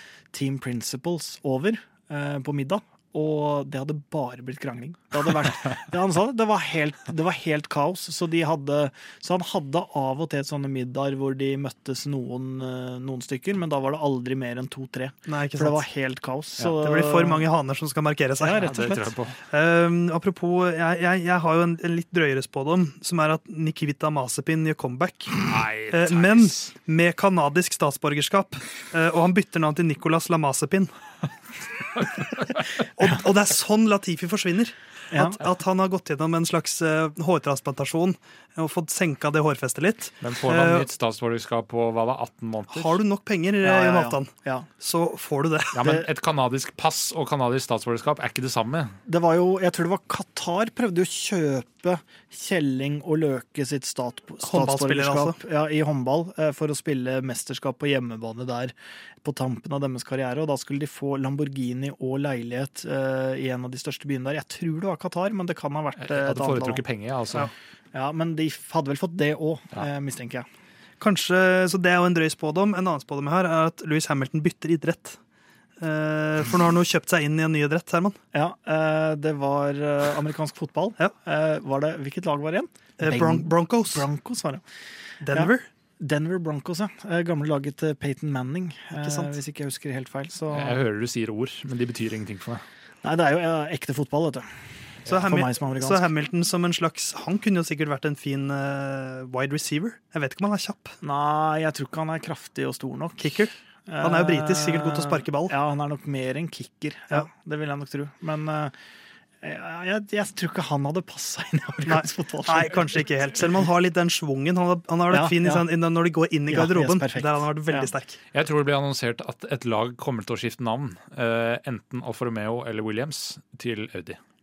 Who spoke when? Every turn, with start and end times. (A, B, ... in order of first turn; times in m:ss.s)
0:00.3-0:17.4 A
0:15.3-0:15.8 B
0:16.8-0:18.7 B
0:18.4-0:19.1 A
0:18.6-0:19.4 C
0:19.5-0:30.9 B
0:25.5-0:26.7 C
0:32.0-0:32.6 C
0:33.0-0:40.9 B
0:35.1-0:35.4 A
0:40.2-0:43.0 C
0:42.7-0:45.8 B
0:43.6-0:44.7 A
0:45.8-0:49.0 C
0:49.1-1:06.8 A
0:54.4-0:55.4 B
1:06.0-1:07.5 C
1:07.4-1:10.5 A
1:11.0-1:15.2 B
1:15.8-1:18.2 B
1:18.3-1:24.6 A
1:23.0-1:24.1 B
1:25.2-1:25.7 B
1:25.3-1:30.8 A
1:29.0-1:29.3 B
1:30.5-1:32.6 C
1:33.0-1:34.4 A
1:35.1-1:36.1 A
1:35.1-1:41.0 B
1:41.0-1:48.7 A
1:43.2-1:45.5 B
1:49.4-1:53.0 A
1:51.9-1:58.2 B
1:55.1-1:55.6 A
1:56.5-1:57.9 A
1:58.3-2:04.2 C